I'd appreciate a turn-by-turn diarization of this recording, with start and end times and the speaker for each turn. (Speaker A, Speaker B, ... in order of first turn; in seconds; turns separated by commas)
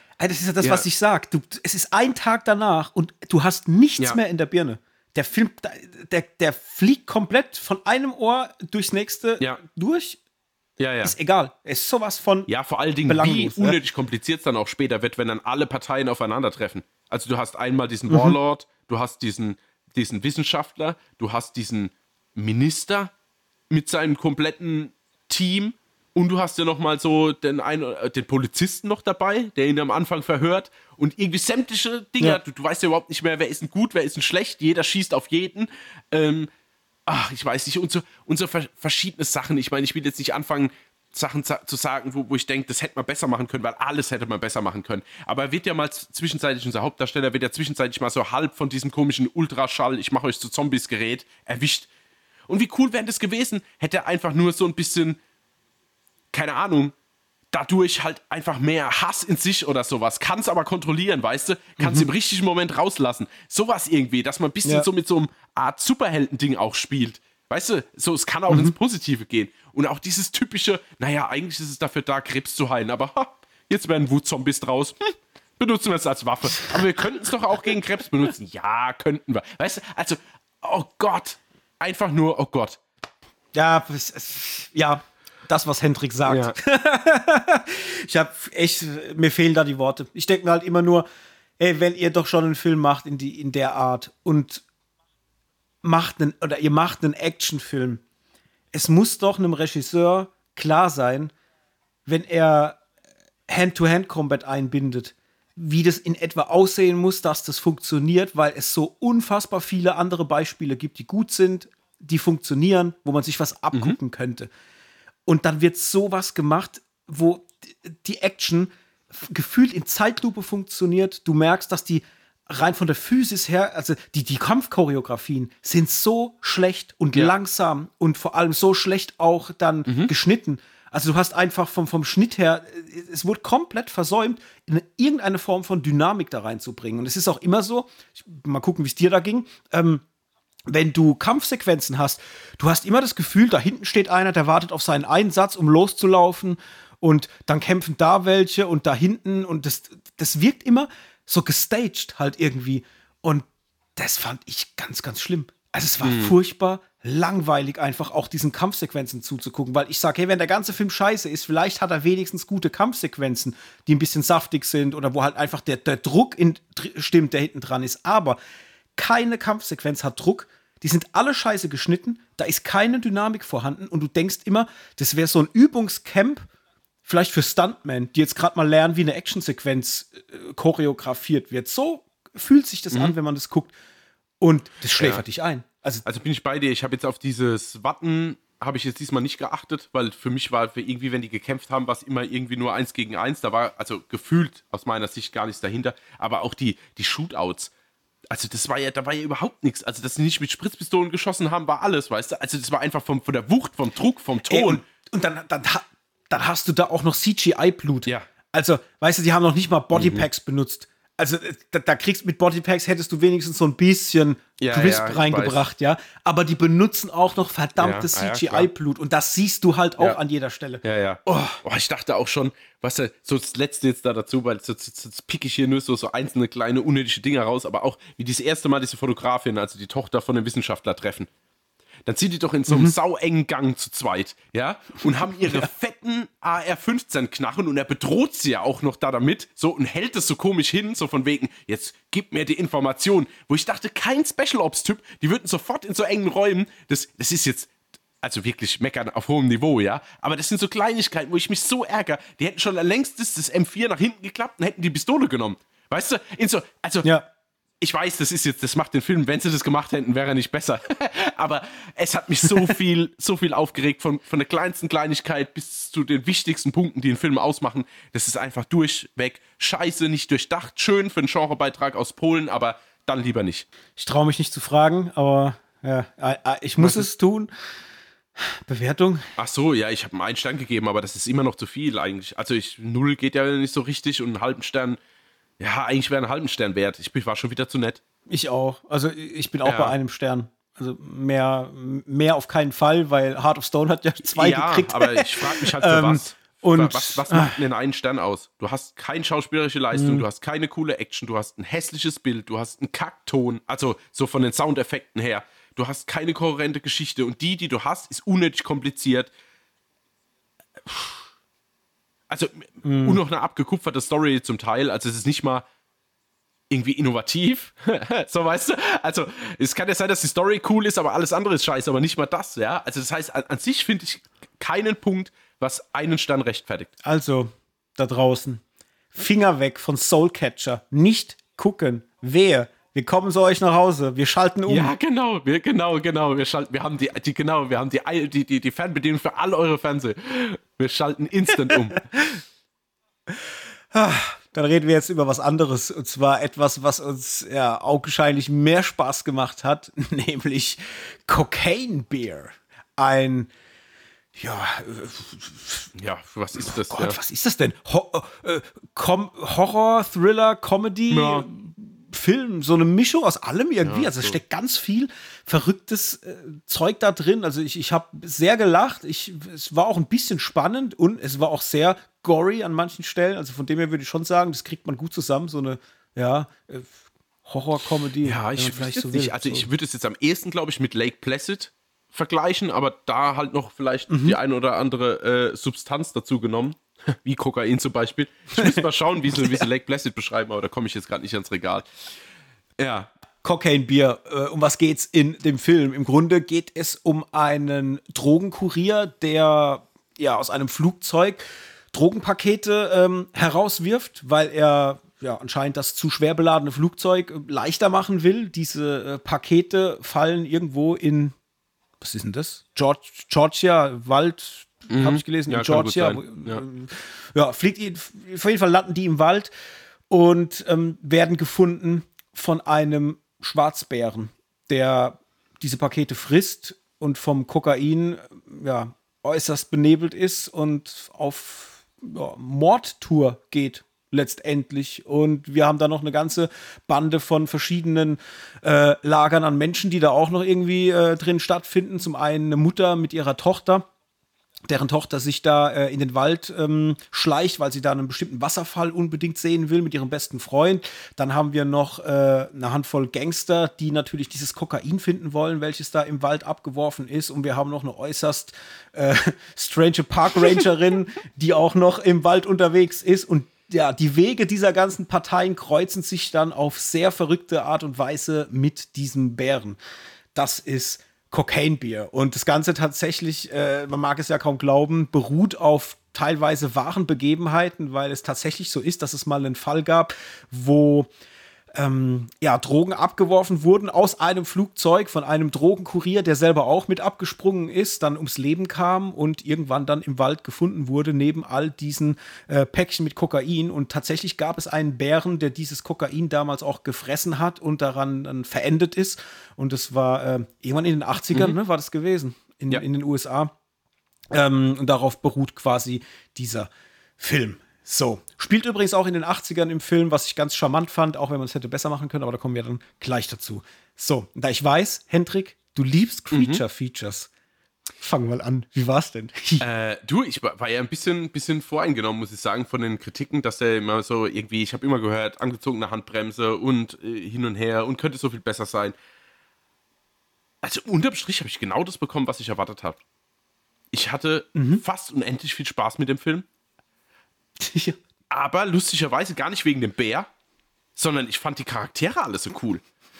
Speaker A: 0.2-10.2, Speaker B: 10.8-11.1, Speaker A: 11.0-12.5, Speaker B: 12.5-23.1, Speaker A: 13.1-13.8, Speaker A: 18.1-18.4, Speaker B: 23.7-36.5, Speaker B: 37.1-51.9, Speaker B: 52.5-55.2, Speaker B: 56.3-56.9, Speaker B: 57.5-82.8, Speaker A: 61.8-62.1, Speaker A: 68.5-68.7, Speaker A: 83.5-91.0, Speaker B: 86.2-86.5, Speaker A: 91.6-94.6, Speaker A: 95.8-98.0, Speaker A: 98.7-101.3, Speaker A: 102.0-102.8, Speaker A: 103.5-114.5, Speaker A: 115.2-140.0, Speaker B: 129.9-130.1, Speaker A: 140.7-168.4, Speaker B: 156.0-156.3, Speaker A: 169.0-176.5, Speaker A: 177.0-183.7, Speaker A: 184.4-186.0, Speaker B: 186.0-197.7, Speaker B: 198.3-204.8, Speaker A: 204.5-221.6, Speaker B: 209.9-210.2, Speaker B: 214.6-215.6, Speaker B: 217.8-218.7, Speaker B: 220.8-231.3, Speaker B: 232.1-247.7, Speaker A: 232.7-232.9, Speaker A: 235.1-235.7, Speaker B: 248.2-257.1, Speaker B: 257.8-273.7, Speaker A: 262.4-262.7, Speaker A: 274.0-277.5, Speaker B: 276.8-277.1, Speaker A: 278.4-279.3, Speaker B: 279.4-285.0, Speaker B: 285.6-288.0, Speaker A: 288.3-297.6, Speaker B: 289.6-289.9, Speaker B: 294.2-309.3, Speaker A: 299.9-300.2, Speaker B: 312.3-315.6, Speaker A: 312.8-313.2, Speaker B: 316.7-326.9, Speaker A: 327.0-328.6, Speaker A: 329.1-334.9, Speaker B: 334.7-342.0, Speaker A: 343.9-353.5, Speaker A: 354.3-355.9, Speaker B: 355.9-357.2, Speaker A: 356.6-379.7, Speaker B: 361.1-361.4, Speaker B: 363.8-364.4, Speaker B: 378.2-391.9, Speaker A: 384.1-384.4, Speaker A: 388.6-389.7, Speaker B: 392.8-393.1, Speaker A: 393.4-411.3, Speaker A: 412.0-419.5, Speaker B: 414.9-416.6, Speaker A: 420.1-443.9, Speaker A: 444.7-469.8, Speaker A: 470.3-481.1, Speaker A: 481.7-503.5, Speaker A: 504.3-517.3, Speaker B: 516.3-516.6, Speaker A: 518.0-519.6, Speaker B: 519.6-528.9, Speaker B: 530.6-533.0, Speaker B: 533.9-536.5, Speaker A: 534.5-534.8, Speaker A: 537.6-538.0, Speaker B: 538.3-540.3, Speaker B: 541.0-542.8